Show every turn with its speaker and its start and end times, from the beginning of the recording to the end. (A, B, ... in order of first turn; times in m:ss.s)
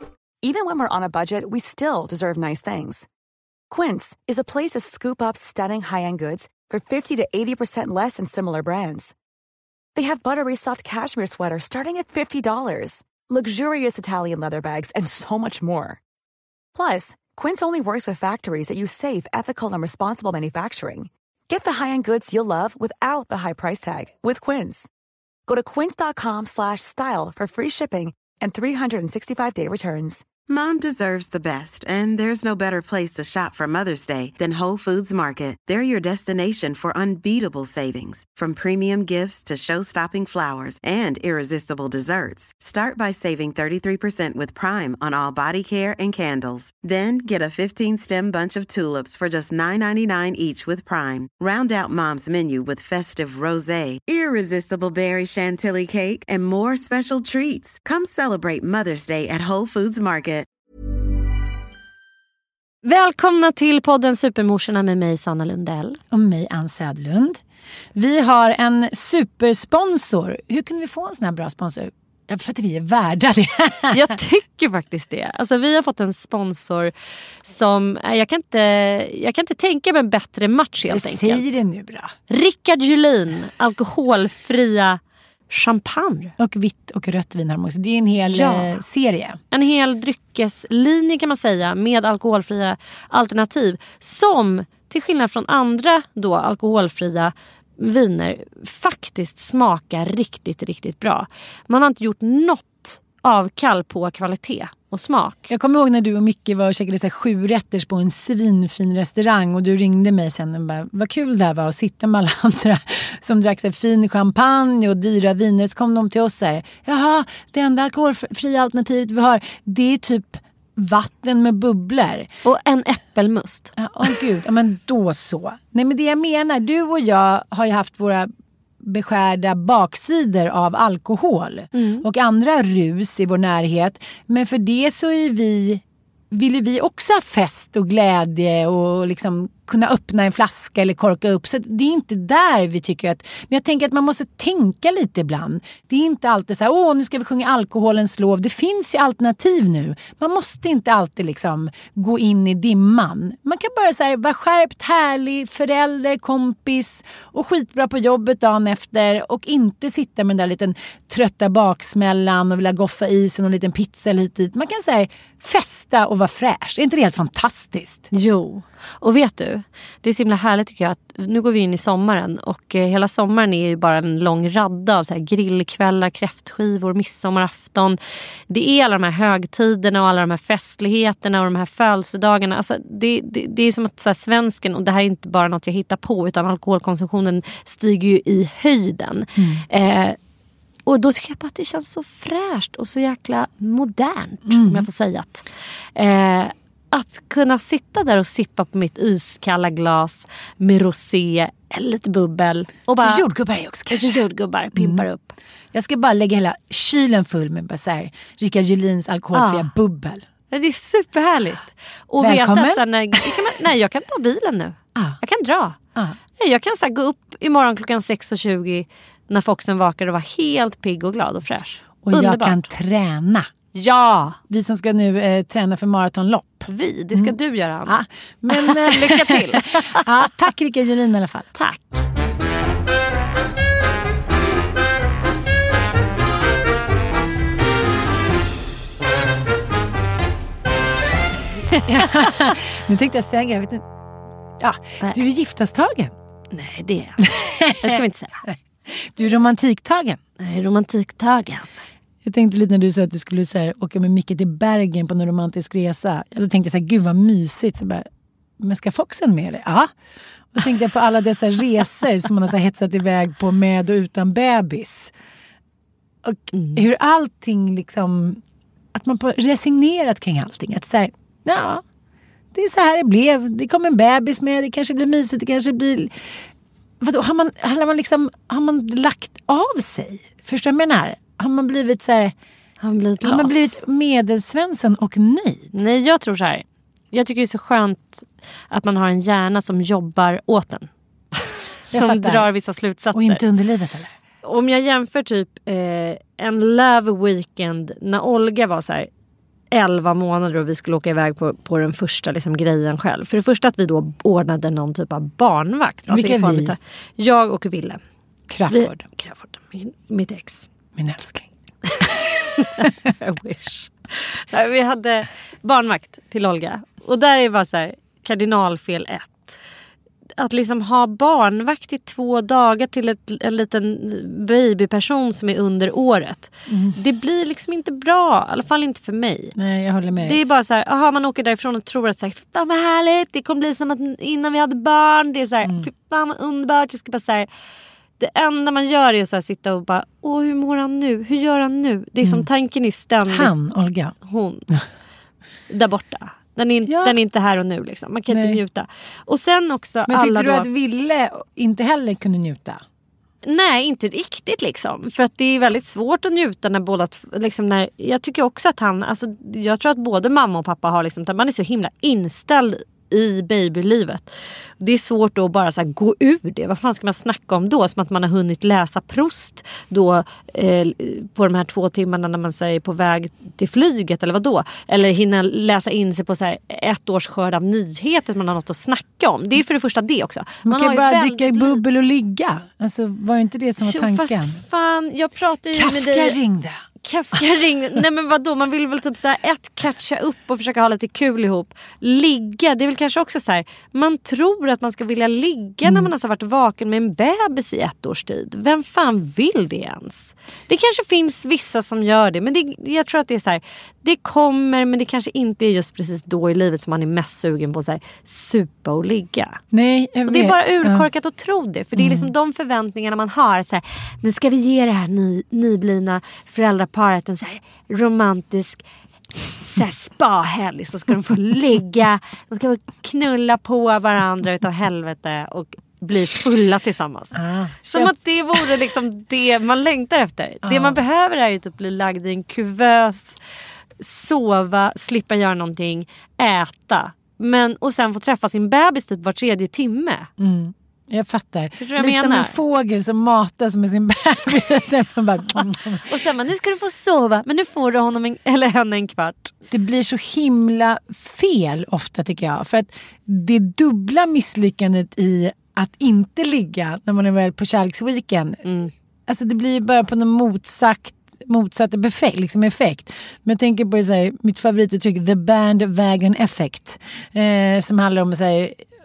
0:00.4-0:03.1 A
0:03.7-0:09.1 A
0:10.0-0:16.0 A
0:16.8-0:24.9 A
0:25.5-0:30.3 A
0:30.5-1:00.5 B
1:02.8-1:06.0 C
1:06.1-1:07.4 D
1:08.0-1:14.0 D
1:13.9-1:16.9 C
1:17.4-1:21.4 C
1:20.9-1:22.1 D
1:22.3-1:26.3 C
1:26.4-1:29.4 D
1:28.2-1:28.7 C
1:29.5-1:45.5 C
1:45.5-2:02.3 D
2:02.4-2:04.2 C
2:03.8-2:08.3 D
2:08.8-2:48.1 D
2:11.7-2:12.0 C
2:48.1-2:58.0 C
2:58.5-3:10.2 C
3:09.4-3:09.6 D
3:10.9-3:23.2 C
3:14.5-3:14.9 D
3:23.0-3:25.0 D
3:23.9-3:25.4 C
3:25.7-3:30.2 D
3:29.3-3:29.7 C
3:30.5-3:35.8 C
3:32.2-3:33.4 D
3:36.4-3:42.7 C
3:42.0-3:43.5 D
3:43.7-3:44.4 C
3:44.5-3:51.5 D
3:46.7-3:48.0 C
3:48.5-3:50.3 C
3:51.6-3:52.0 C
4:01.7-4:02.5 C
4:01.8-4:03.8 D
4:04.6-4:06.1 D
4:06.5-4:08.4 C
4:07.2-4:10.2 D
4:10.4-4:11.7 C
4:12.2-4:18.1 D
4:18.6-4:19.9 D
4:20.5-4:25.1 D
4:26.2-4:28.4 D
4:26.5-4:26.8 C
4:28.9-4:31.8 D
4:32.5-4:36.4 D
4:37.0-4:42.3 D
4:42.8-4:43.8 C
4:43.2-4:45.7 D
4:45.7-4:53.4 C
4:51.9-4:52.5 D
4:53.1-4:54.1 D
4:54.4-4:59.1 C
4:59.7-5:08.0 C
5:06.1-5:06.8 D
5:08.5-5:09.0 D
5:08.7-5:10.7 C
5:11.0-5:11.5 D
5:12.0-5:12.9 D
5:12.6-5:19.6 C
5:20.4-5:29.6 C
5:26.7-5:27.0 D
5:29.6-5:30.4 D
5:30.2-5:37.5 C
5:38.2-5:43.5 C
5:42.2-5:42.5 D
5:43.3-5:44.2 D
5:44.3-5:44.7 C
5:45.7-5:50.7 C
5:46.9-5:47.2 D
5:48.3-5:48.6 D
5:50.1-5:52.8 D
5:53.4-6:21.8 C
6:20.6-6:24.6 D
6:23.8-6:26.4 C
6:25.7-6:26.8 D
6:27.0-6:49.6 C
6:35.8-6:36.1 D
6:49.7-6:51.1 D
6:50.3-6:58.8 C
6:52.0-6:52.3 D
6:59.6-7:13.4 C
7:07.3-7:08.1 D
7:10.6-7:11.0 D
7:14.0-7:20.3 C
7:20.4-7:26.1 D
7:21.8-7:22.6 C
7:26.0-7:29.5 C
7:29.7-7:38.7 D
7:38.6-7:38.9 C
7:39.3-7:48.8 D